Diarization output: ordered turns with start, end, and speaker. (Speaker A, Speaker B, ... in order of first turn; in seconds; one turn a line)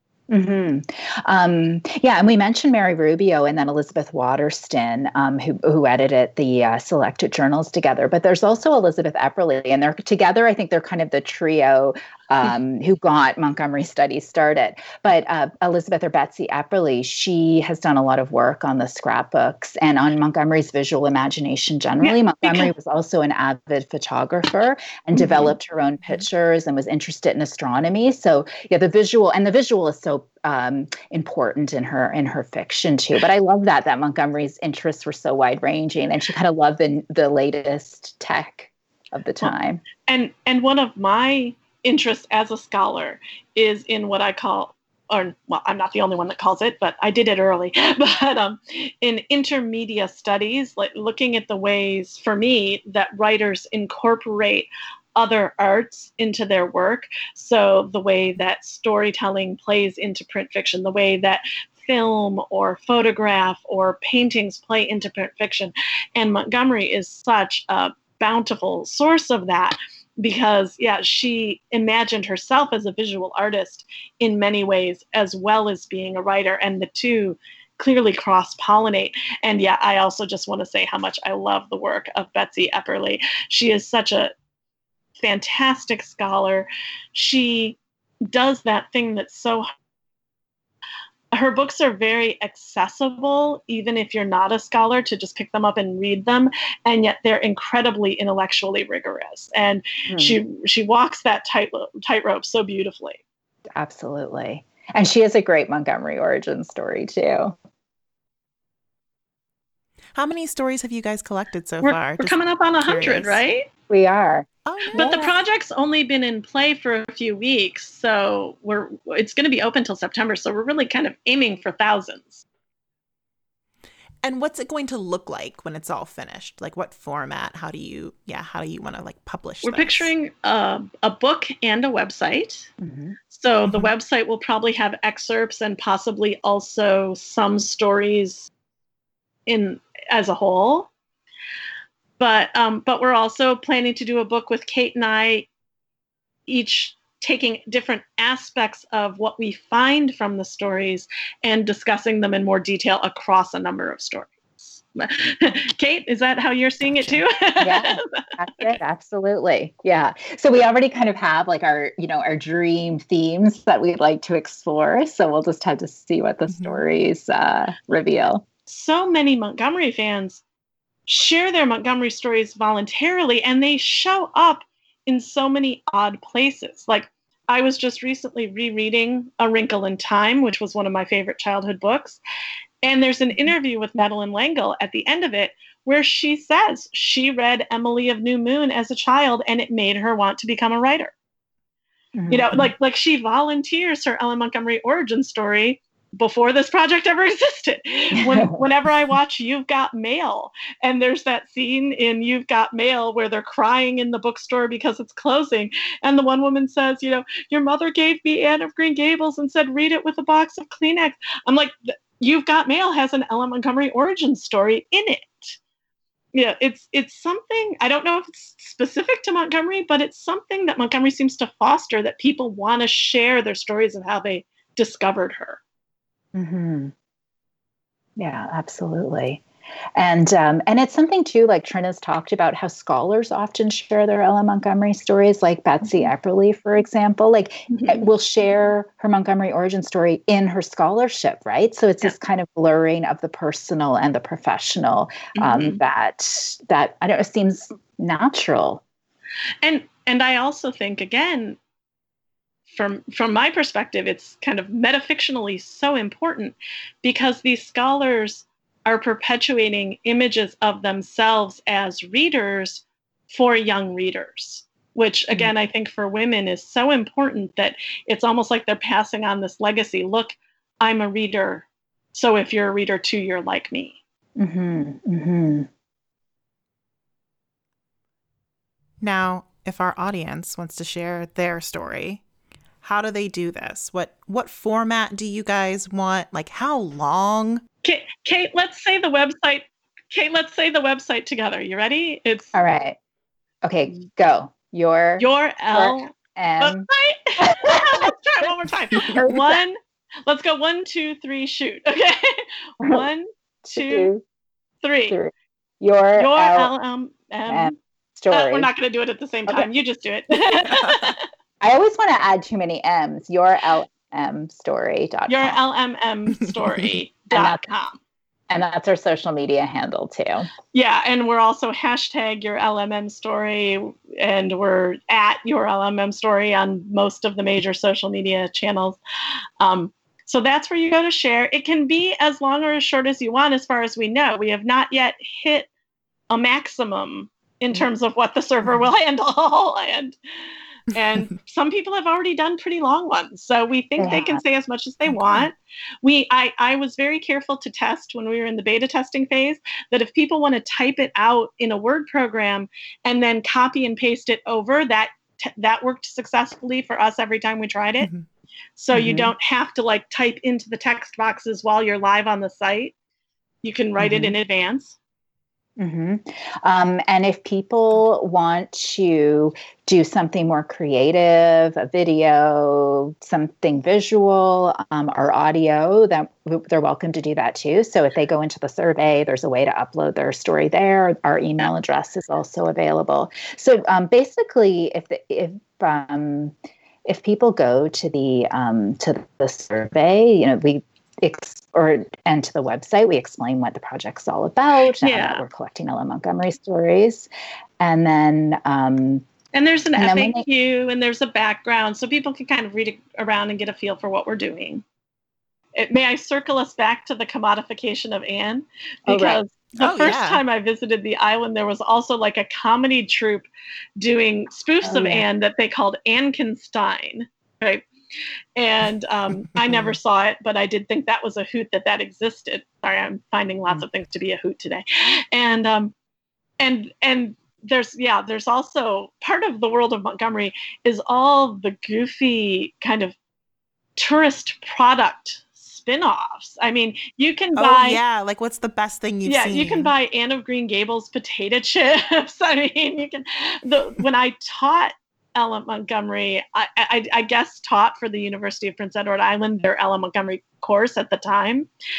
Speaker A: 0.3-39.8
Speaker B: 22.0-22.7
Speaker B: 25.2-25.5
Speaker B: 40.1-84.3
Speaker B: 85.2-87.8
Speaker B: 88.3-89.7
Speaker B: 91.3-103.2
Speaker A: 100.1-100.4
Speaker A: 103.7-107.5
Speaker C: 110.2-113.4
Speaker B: 111.8-113.7
Speaker A: 113.9-115.3
Speaker C: 114.7-115.3
Speaker B: 114.9-122.4
Speaker C: 124.2-130.1
Speaker B: 129.6-132.7
Speaker A: 132.8-133.2
Speaker B: 133.3-138.5
Speaker B: 139.5-140.9
Speaker B: 142.2-145.5
Speaker B: 146.5-158.8
Speaker C: 156.9-157.2
Speaker A: 157.6-168.4
Speaker C: 166.5-166.8
Speaker B: 168.7-170.4
Speaker B: 171.1-182.2
Speaker B: 182.8-191.1
Speaker A: 192.2-192.7
Speaker B: 192.3-215.6
Speaker A: 198.2-198.6
Speaker B: 216.3-225.6
Speaker A: 226.3-226.9
Speaker A: 228.2-229.4
Speaker A: 230.0-248.8
Speaker B: 237.7-238.0
Speaker B: 245.4-245.8
Speaker B: 249.6-251.6
Speaker B: 252.7-274.0
Speaker A: 274.4-275.7
Speaker C: 279.0-282.2
Speaker C: 282.8-287.6
Speaker B: 287.8-292.5
Speaker A: 292.5-293.0
Speaker A: 293.6-296.9
Speaker B: 295.2-304.1
Speaker A: 297.4-298.1
Speaker A: 299.0-299.6
Speaker A: 302.8-303.1
Speaker A: 303.7-304.2
Speaker B: 304.8-305.2
Speaker A: 305.1-306.7
Speaker B: 306.2-307.8
Speaker A: 307.5-308.7
Speaker B: 308.3-311.2
Speaker A: 311.6-315.6
Speaker B: 315.3-318.0
Speaker A: 317.3-317.6
Speaker A: 318.5-320.5
Speaker B: 320.7-329.0
Speaker B: 329.6-335.7
Speaker B: 336.3-340.2
Speaker B: 340.9-358.1
Speaker A: 344.0-344.4
Speaker C: 358.0-358.3
Speaker B: 358.8-362.9
Speaker A: 358.9-359.3
Speaker B: 363.6-365.0
Speaker A: 364.0-364.4
Speaker A: 365.8-386.5
Speaker A: 387.1-397.3
Speaker B: 395.0-395.4
Speaker A: 397.8-399.3
Speaker B: 399.5-404.8
Speaker A: 400.0-400.4
Speaker B: 405.8-413.5
Speaker A: 409.1-409.4
Speaker C: 409.8-410.4
Speaker B: 414.0-417.9
Speaker A: 414.8-415.2
Speaker B: 418.6-425.9
Speaker B: 426.6-433.1
Speaker B: 434.0-438.0
Speaker C: 437.6-439.9
Speaker B: 439.2-451.7